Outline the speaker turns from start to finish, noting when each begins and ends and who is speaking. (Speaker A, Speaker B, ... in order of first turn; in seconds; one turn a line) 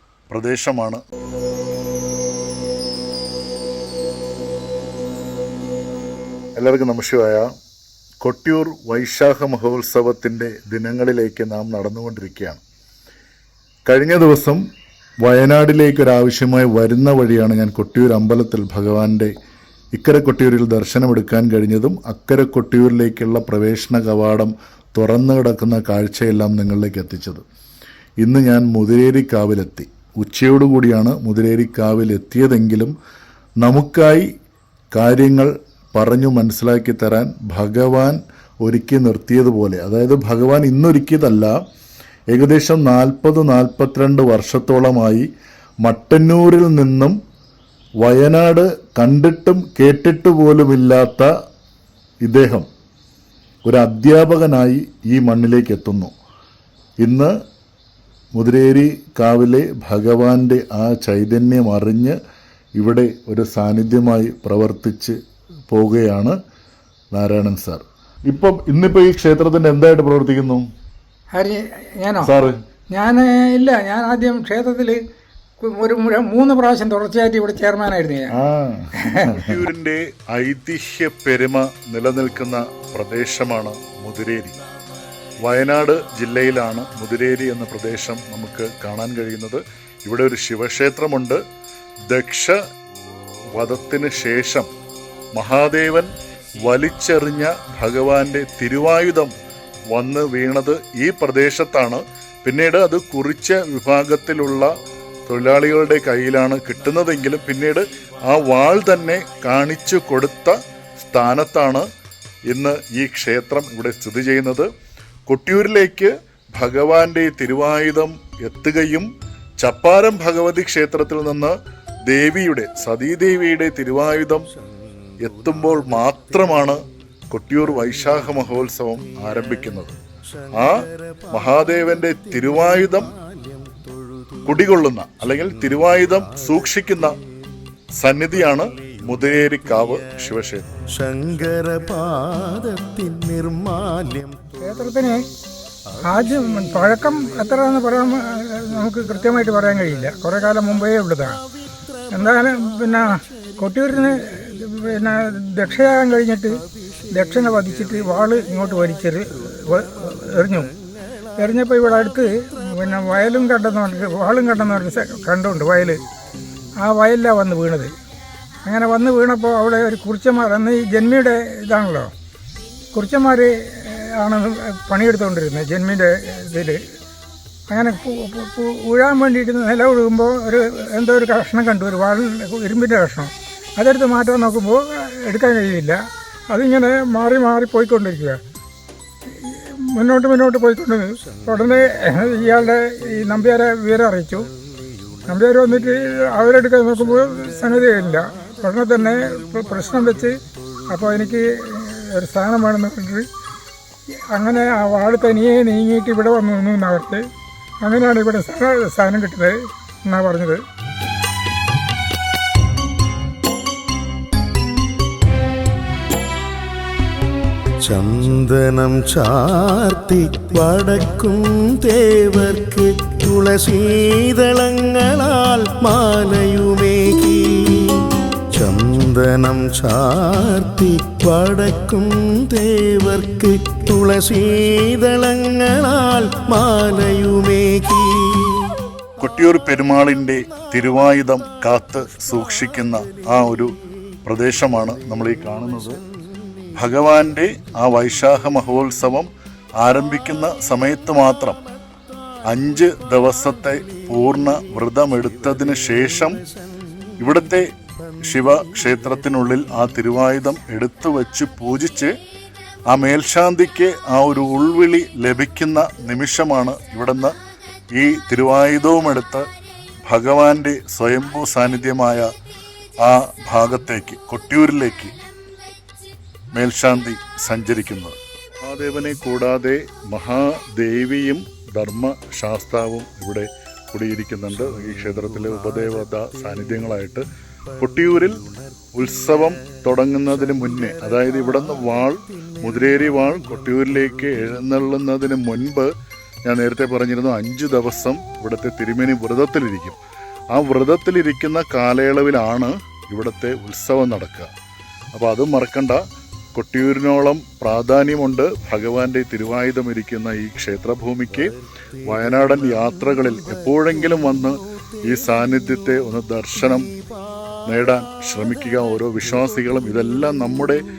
Speaker A: 0.3-1.0
Speaker A: 6.6-7.5
Speaker A: 8.2-12.6
Speaker A: 13.9-14.6
Speaker A: 15.2-19.3
Speaker A: 19.9-27.4
Speaker A: 28.2-32.9
Speaker A: 33.6-34.3
Speaker A: 34.9-41.5
Speaker A: 42.3-45.3
Speaker A: 45.8-47.2
Speaker A: 48.0-51.3
Speaker A: 52.2-52.7
Speaker A: 53.7-56.1
Speaker A: 57.0-57.3
Speaker A: 58.4-62.2
Speaker A: 62.8-65.2
Speaker A: 65.7-66.4
Speaker A: 67.1-70.7
Speaker B: 71.3-72.3
Speaker A: 72.2-72.6
Speaker B: 72.9-75.0
Speaker B: 75.6-78.3
Speaker A: 78.3-84.6
Speaker B: 79.0-79.5
Speaker A: 85.4-91.4
Speaker A: 92.1-92.6
Speaker A: 93.5-94.7
Speaker A: 95.3-96.1
Speaker A: 96.7-99.3
Speaker A: 99.9-104.7
Speaker A: 105.3-111.9
Speaker A: 112.5-114.7
Speaker A: 115.3-119.1
Speaker A: 119.6-124.5
Speaker A: 125.2-130.0
Speaker A: 130.5-133.2
Speaker C: 132.6-134.4
Speaker A: 134.4-137.2
Speaker A: 138.0-140.7
Speaker C: 140.9-144.6
Speaker B: 144.6-145.3
Speaker B: 146.0-151.4
Speaker B: 152.1-160.7
Speaker B: 161.4-166.0
Speaker B: 166.8-167.9
Speaker B: 168.7-172.1
Speaker B: 172.9-176.8
Speaker B: 177.7-188.4
Speaker B: 189.4-194.5
Speaker B: 195.3-203.3
Speaker B: 204.3-207.3
Speaker B: 207.8-210.6
Speaker C: 217.8-238.8
Speaker A: 239.2-243.7
Speaker A: 244.3-246.0
Speaker A: 246.8-249.3
Speaker A: 249.8-251.6
Speaker A: 252.5-256.4
Speaker A: 257.2-262.1
Speaker A: 262.9-267.3
Speaker A: 267.9-269.4
Speaker A: 270.1-272.3
Speaker A: 273.0-275.1
Speaker A: 276.5-295.9
Speaker A: 296.4-300.0
Speaker A: 300.5-304.5
Speaker A: 305.1-306.0
Speaker A: 306.6-316.9
Speaker A: 317.7-320.8